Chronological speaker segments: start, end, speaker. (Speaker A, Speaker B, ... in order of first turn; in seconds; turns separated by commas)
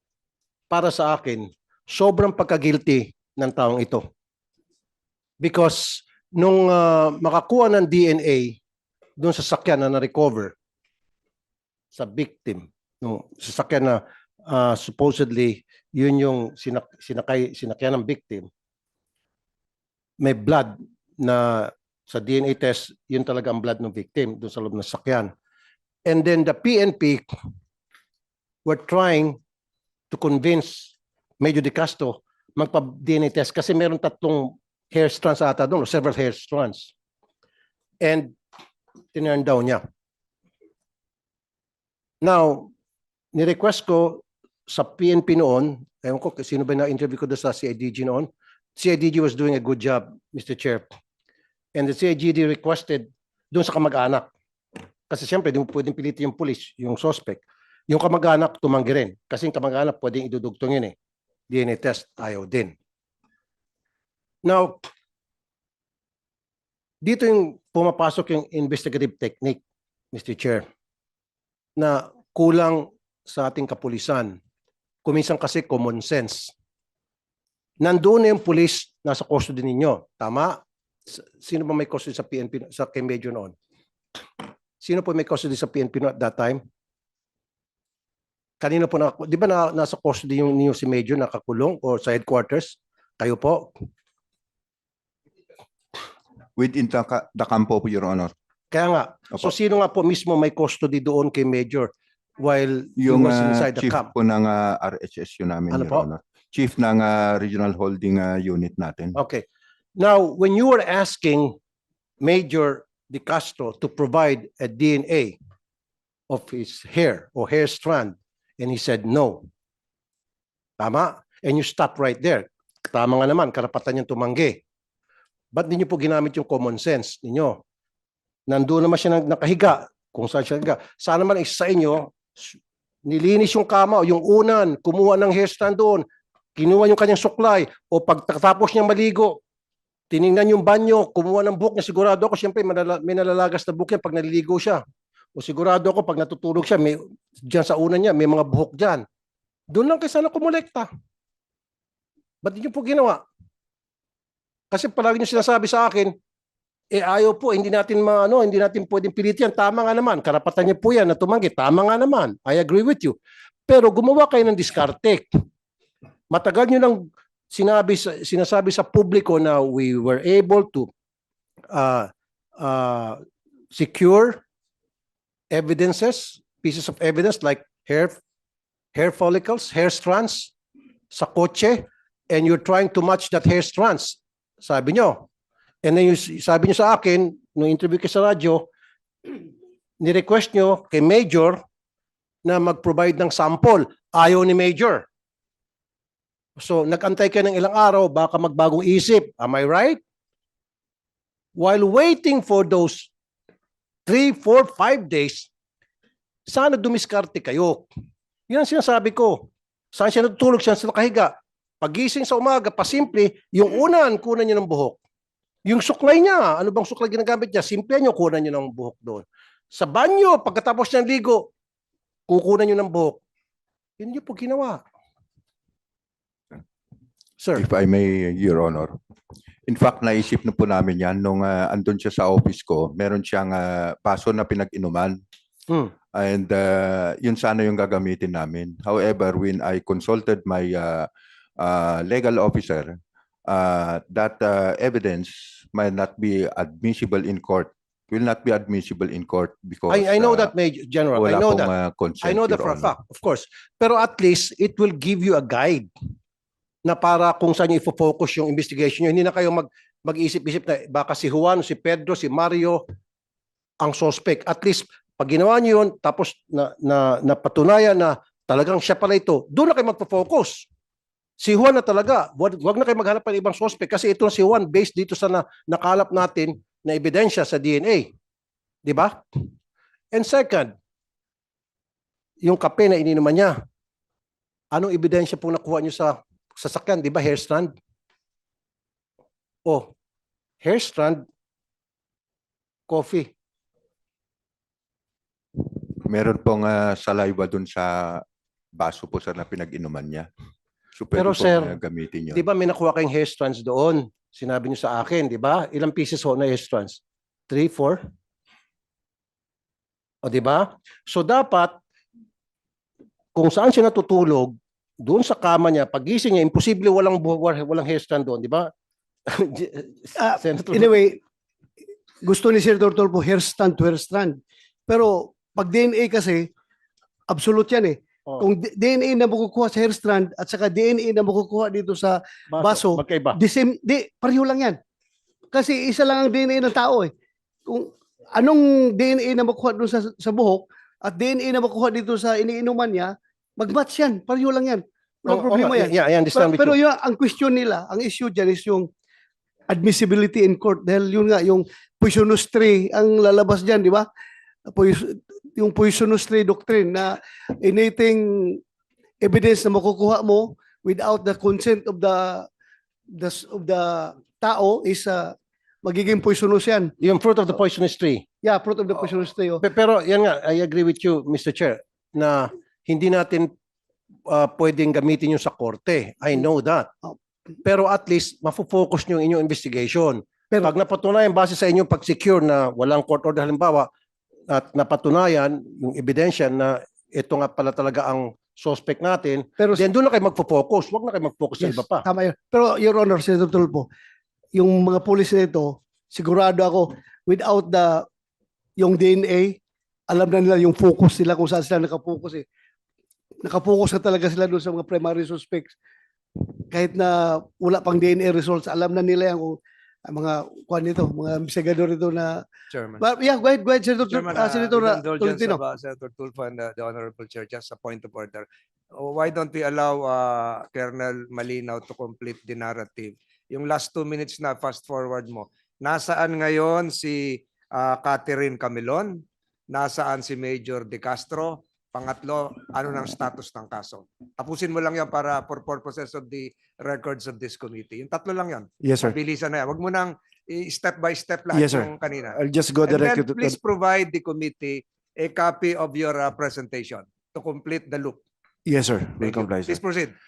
Speaker A: 0.7-4.1, Speaker A: 5.4-8.6, Speaker A: 9.2-10.5, Speaker A: 11.9-18.5, Speaker A: 20.2-25.3, Speaker A: 26.1-27.2, Speaker A: 28.6-29.4, Speaker A: 30.1-36.9, Speaker A: 38.0-38.4, Speaker A: 39.1-39.8, Speaker A: 42.2-42.7, Speaker A: 43.3-50.9, Speaker A: 51.7-54.3, Speaker A: 55.1-60.9, Speaker A: 61.5-62.7, Speaker A: 64.4-64.9, Speaker A: 67.0-69.6, Speaker A: 70.1-70.7, Speaker A: 71.8-74.4, Speaker A: 75.0-76.5, Speaker A: 77.8-83.5, Speaker A: 84.8-86.6, Speaker A: 88.6-93.8, Speaker B: 96.6-98.3, Speaker A: 98.7-104.1, Speaker B: 103.0-109.2, Speaker A: 105.7-106.0, Speaker A: 109.1-109.4, Speaker A: 110.0-111.6, Speaker A: 112.2-115.3, Speaker A: 116.3-119.5, Speaker A: 120.8-124.6, Speaker A: 125.5-127.6, Speaker A: 128.5-139.4, Speaker A: 140.1-144.8, Speaker A: 145.3-149.0, Speaker A: 149.7-150.9, Speaker A: 152.4-153.2, Speaker A: 154.7-156.1, Speaker A: 156.9-163.2, Speaker A: 163.7-165.3, Speaker A: 166.3-170.9, Speaker A: 171.7-173.2, Speaker A: 173.7-174.4, Speaker A: 175.5-178.2, Speaker A: 178.9-180.5, Speaker A: 181.1-185.3, Speaker A: 185.8-188.7, Speaker A: 190.0-191.6, Speaker A: 192.4-195.1, Speaker A: 196.6-200.0, Speaker A: 201.6-203.1, Speaker A: 204.1-205.5, Speaker A: 206.5-207.9, Speaker A: 208.5-215.0, Speaker A: 215.7-221.5, Speaker A: 222.3-223.2, Speaker A: 224.0-224.8, Speaker B: 227.6-229.0, Speaker B: 229.7-235.2, Speaker B: 236.1-241.1, Speaker B: 241.6-250.5, Speaker A: 249.9-255.9, Speaker B: 251.1-252.9, Speaker A: 256.8-262.8, Speaker A: 263.8-270.7, Speaker A: 271.4-278.1, Speaker A: 278.8-279.5, Speaker A: 280.1-280.7, Speaker A: 282.4-283.6, Speaker A: 284.7-287.7, Speaker A: 289.6-289.9, Speaker A: 290.6-291.2, Speaker A: 292.9-293.3, Speaker B: 295.7-298.2, Speaker B: 298.7-300.3, Speaker B: 301.0-302.4, Speaker A: 301.1-301.8, Speaker A: 302.3-308.1, Speaker A: 310.2-311.8, Speaker A: 313.3-318.7, Speaker A: 319.3-320.9, Speaker C: 320.2-321.2, Speaker C: 322.2-326.5, Speaker C: 327.3-334.8, Speaker A: 332.5-333.4, Speaker C: 335.5-337.1, Speaker C: 337.6-348.9, Speaker A: 345.3-346.8, Speaker C: 349.7-354.1, Speaker C: 354.7-358.6, Speaker C: 359.2-362.5, Speaker C: 363.1-366.9, Speaker A: 367.0-368.2, Speaker C: 368.4-369.6, Speaker A: 369.6-373.5, Speaker A: 374.3-376.9, Speaker A: 377.6-383.9, Speaker A: 384.5-392.1, Speaker C: 389.6-389.8, Speaker C: 391.6-393.9, Speaker C: 394.5-398.1, Speaker C: 398.8-399.6, Speaker C: 400.1-402.4, Speaker C: 403.4-405.7, Speaker C: 406.7-412.4, Speaker D: 412.7-413.0, Speaker C: 413.0-415.6, Speaker D: 414.1-418.5, Speaker D: 419.0-448.2, Speaker E: 438.8-439.2, Speaker E: 441.5-443.6, Speaker E: 448.6-449.8, Speaker D: 449.2-450.1